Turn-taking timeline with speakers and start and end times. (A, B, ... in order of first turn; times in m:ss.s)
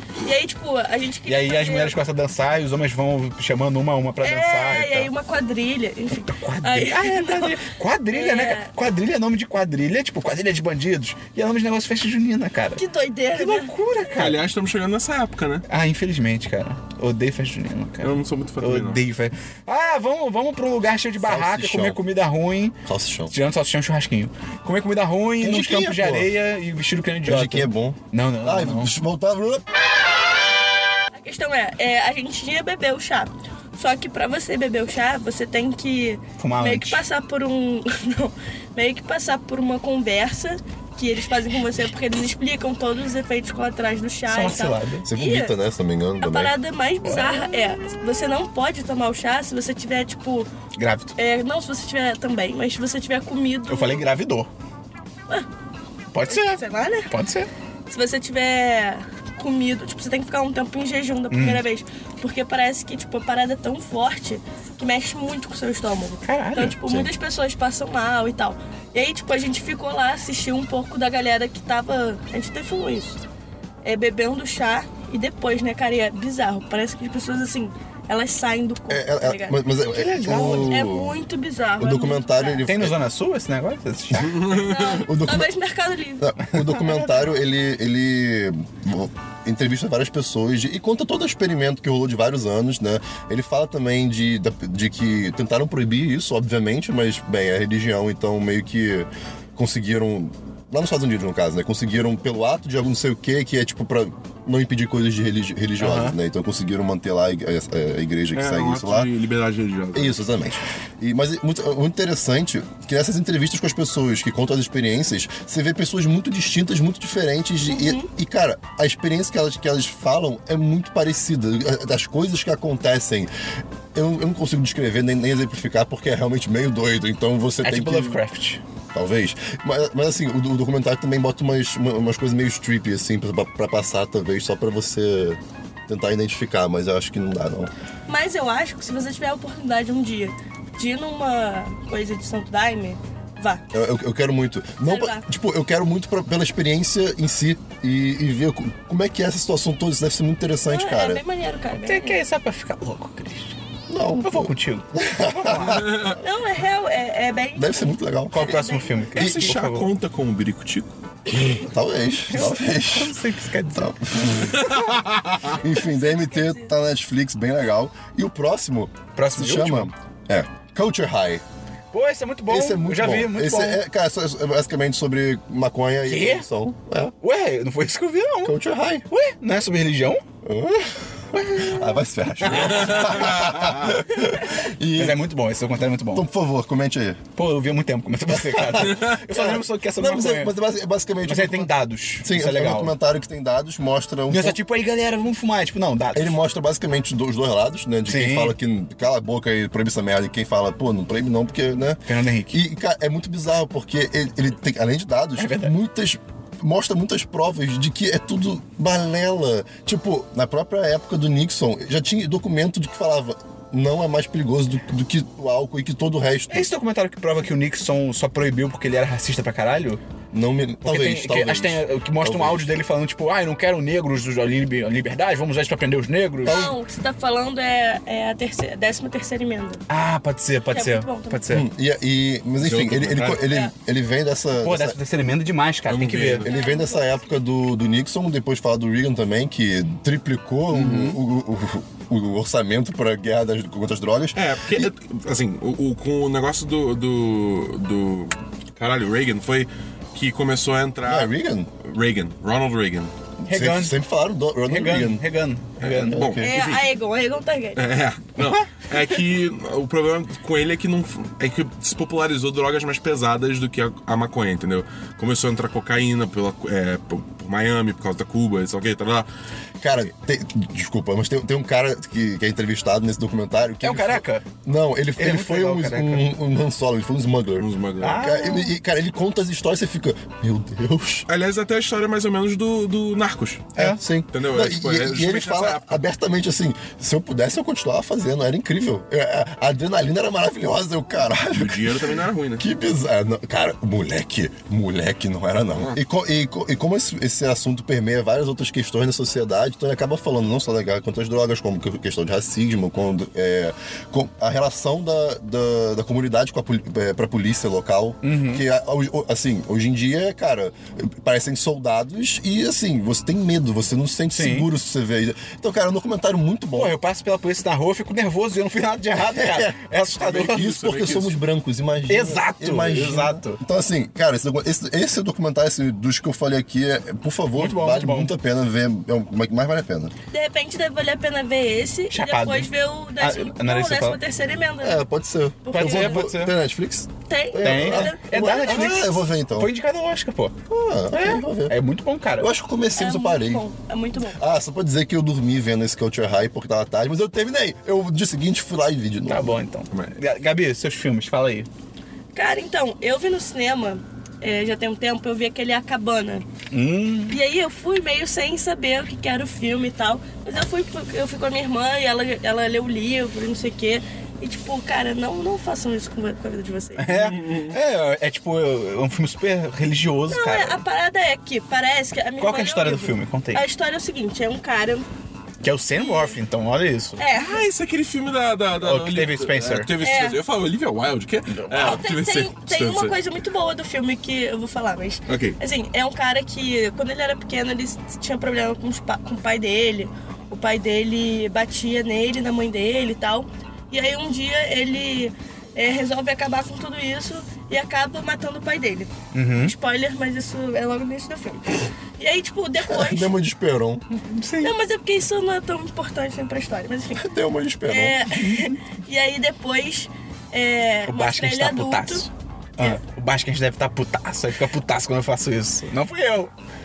0:00.2-0:02.0 A
0:01.3-0:05.1 B
0:04.2-0:07.6 A
0:06.3-0:12.8 B
0:08.1-0:08.7 A
0:12.8-0:13.7 A
0:13.3-0:14.4 B
0:14.1-0:15.6 C
0:15.7-0:22.8 B
0:18.0-0:19.0 C
0:21.2-0:22.0 D
0:22.9-0:23.3 D
0:23.3-0:28.9 B
0:25.4-0:26.4 D
0:27.2-0:29.6 D
0:31.2-0:45.5 A
0:36.4-0:37.0 B
0:44.3-0:45.1 B
0:45.0-0:46.6 D
0:46.2-0:50.5 A
0:47.0-0:48.1 B
0:50.8-0:51.2 B
0:51.2-0:54.0 A
0:53.7-0:54.5 B
0:56.1-0:57.5 B
0:56.3-0:57.1 A
0:57.9-1:13.2 A
1:01.3-1:01.6 B
1:06.2-1:06.8 B
1:13.8-1:19.6 A
1:18.9-1:21.2 D
1:19.8-1:20.8 B
1:20.4-1:22.6 A
1:21.8-1:23.0 D
1:22.6-1:24.4 B
1:24.2-1:25.5 D
1:24.2-1:25.0 C
1:24.5-1:27.2 A
1:26.2-1:49.1 D
1:26.5-1:26.8 B
1:45.8-1:46.2 B
1:48.3-1:50.2 C
1:49.9-2:03.3 D
1:57.7-1:58.1 A
2:03.9-2:08.2 D
2:07.6-2:08.6 B
2:08.9-2:17.7 D
2:18.1-2:23.6 A
2:23.7-2:31.2 D
2:24.8-2:25.2 A
2:30.7-2:32.2 A
2:31.8-2:33.6 B
2:33.9-2:36.2 D
2:34.2-2:36.1 B
2:35.7-2:36.2 C
2:36.2-2:39.0 A
2:37.6-2:39.5 D
2:38.3-2:39.9 B
2:39.2-2:40.9 C
2:41.5-2:43.2 D
2:42.3-2:44.8 B
2:43.7-2:44.6 D
2:44.6-2:45.5 C
2:45.6-2:51.4 D
2:45.6-2:46.7 A
2:49.2-2:49.9 B
2:51.9-2:53.8 B
2:52.5-2:57.1 D
2:56.1-2:56.4 B
2:57.2-2:58.6 B
2:58.4-2:59.1 D
2:59.1-3:00.2 B
3:00.4-3:05.2 D
3:01.3-3:03.5 B
3:02.9-3:03.5 C
3:05.0-3:06.3 B
3:06.1-3:07.2 D
3:07.4-3:10.6 B
3:08.3-3:14.6 D
3:11.2-3:13.0 B
3:14.3-3:16.4 B
3:16.1-3:36.7 D
3:18.1-3:18.6 B
3:22.1-3:22.6 B
3:25.4-3:25.8 B
3:36.5-3:40.0 B
3:40.3-3:42.8 D
3:40.8-3:46.7 B
3:46.4-3:49.8 A
3:46.5-3:46.7 D
3:49.9-3:51.7 B
3:50.7-3:51.4 A
3:51.5-3:55.0 D
3:52.6-3:53.4 C
3:54.6-3:56.5 B
3:55.9-3:56.5 C
3:56.4-4:04.9 D
3:56.5-3:57.4 A
4:00.7-4:01.2 B
4:04.3-4:13.1 C
4:11.0-4:11.7 D
4:13.4-4:15.2 D
4:13.5-4:14.0 B
4:14.7-4:16.3 B
4:15.8-4:16.9 C
4:16.0-4:16.6 D
4:16.4-4:17.8 A
4:17.8-4:29.3 C
4:18.4-4:18.7 B
4:29.8-4:41.3 D
4:33.8-4:34.4 B
4:35.2-4:36.3 B
4:37.6-4:38.2 C
4:38.0-4:38.7 B
4:41.3-4:43.8 C
4:43.8-5:17.0 D
4:43.8-4:44.0 B
4:44.3-4:46.0 C
4:51.5-4:52.7 C
5:08.2-5:08.6 B
5:14.3-5:14.7 B
5:16.7-5:20.7 B
5:19.2-5:30.1 D
5:20.2-5:21.4 C
5:22.1-5:23.6 B
5:27.6-5:28.3 B
5:30.3-5:35.0 A
5:32.1-5:34.2 B
5:34.8-5:39.7 D
5:35.6-5:36.3 A
5:35.7-5:36.6 B
5:37.3-5:39.0 A
5:37.6-5:40.6 B
5:40.7-5:41.8 D
5:41.1-5:42.5 B
5:42.4-5:43.6 D
5:43.0-5:44.4 A
5:44.3-5:49.6 D
5:49.3-5:51.7 B
5:49.9-5:50.2 C
5:52.4-5:56.4 A
5:56.7-5:57.4 B
5:57.3-6:07.1 A
6:07.0-6:10.8 B
6:07.1-6:07.8 C
6:10.3-6:15.1 A
6:12.4-6:13.7 B
6:15.6-6:17.2 B
6:16.0-6:16.4 A
6:17.2-6:17.7 A
6:17.3-6:23.2 C
6:18.8-6:19.9 B
6:20.0-6:20.4 A
6:21.5-6:21.9 B
6:21.7-6:43.3 A
6:25.3-6:25.6 C
6:39.3-6:39.7 B
6:42.9-6:44.0 D
6:44.1-6:44.8 B
6:44.6-6:47.2 A
6:47.2-6:48.3 D
6:47.9-6:52.3 A
6:51.1-6:56.5 B